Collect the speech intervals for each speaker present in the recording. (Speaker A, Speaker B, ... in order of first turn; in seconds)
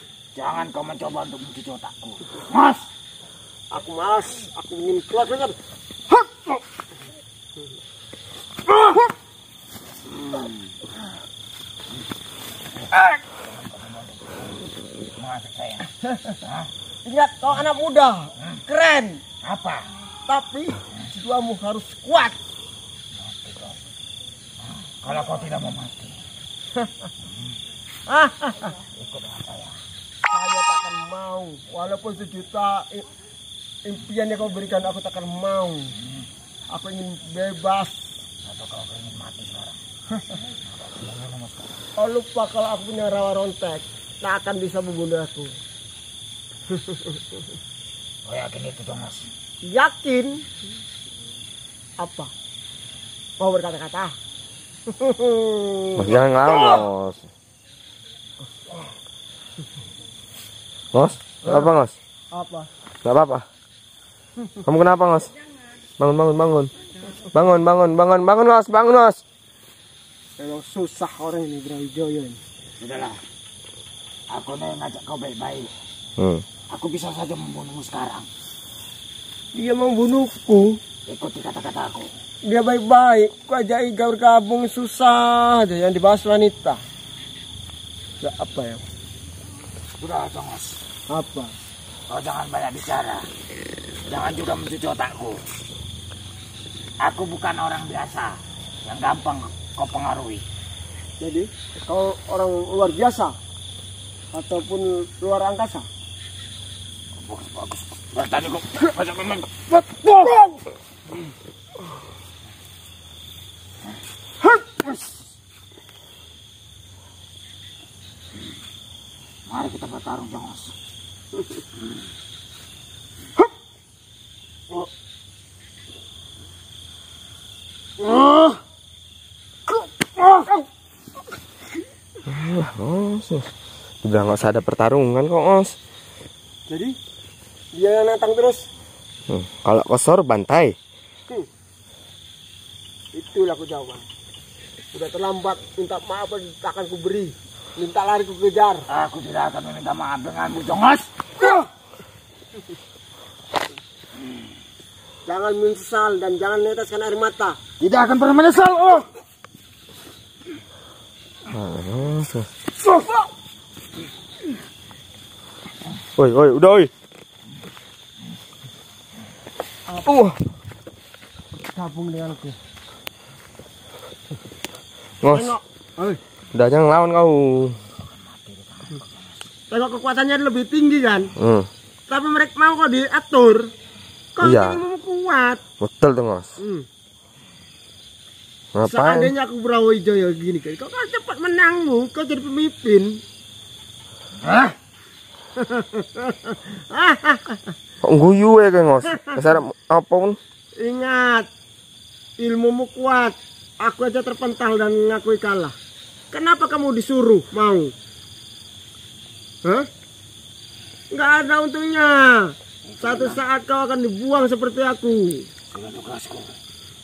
Speaker A: 0.3-2.9, 12.9-14.6, 15.2-15.9, 16.4-16.7, 19.4-19.9, 23.2-23.8, 24.8-26.2, 28.9-29.8, 38.5-39.8, 40.7-41.7, 48.3-49.3, 72.8-73.2, 74.3-75.7, 76.7-78.3, 81.1-82.1, 90.0-90.8, 92.1-93.2, 94.1-95.4, 97.0-98.3, 98.8-100.4, 107.2-109.8, 119.5-120.7, 148.9-151.5, 157.8-159.1, 178.0-179.4, 194.4-194.8, 212.9-213.4, 215.7-216.6
Speaker B: 3.7-5.6, 16.0-16.4, 17.1-19.2, 20.3-22.4, 28.1-28.8, 30.3-33.0, 33.9-35.9, 36.7-38.0, 42.0-45.5, 49.6-50.5, 52.0-52.3, 53.4-54.1, 54.9-56.9, 61.4-61.7, 62.3-62.7, 70.4-72.4, 79.5-80.8, 82.5-86.8, 88.2-88.8, 91.1-91.5, 101.2-103.3, 104.3-105.9, 114.4-115.2, 128.0-128.6, 129.7-130.6, 136.7-136.9, 137.7-138.7, 143.1-144.1, 144.9-148.8, 155.3-157.6, 171.7-172.6, 175.3-176.2, 179.7-181.3, 182.1-183.7, 184.4-185.6, 186.6-186.9, 188.8-193.2, 195.6-197.7, 199.1-199.4, 200.8-201.5, 202.4-205.8, 206.3-207.9, 211.1-215.5
Speaker C: 56.0-57.2, 60.9-62.0, 63.0-63.5, 64.7-65.3, 66.0-66.7, 67.3-69.2, 76.2-76.4, 132.3-133.5, 134.0-135.8, 139.3-140.8, 161.5-162.5, 166.2-166.9, 170.0-170.4, 175.2-175.6, 176.5-177.8, 181.4-181.7, 184.4-184.8, 185.8-186.5, 188.7-189.3, 198.0-200.4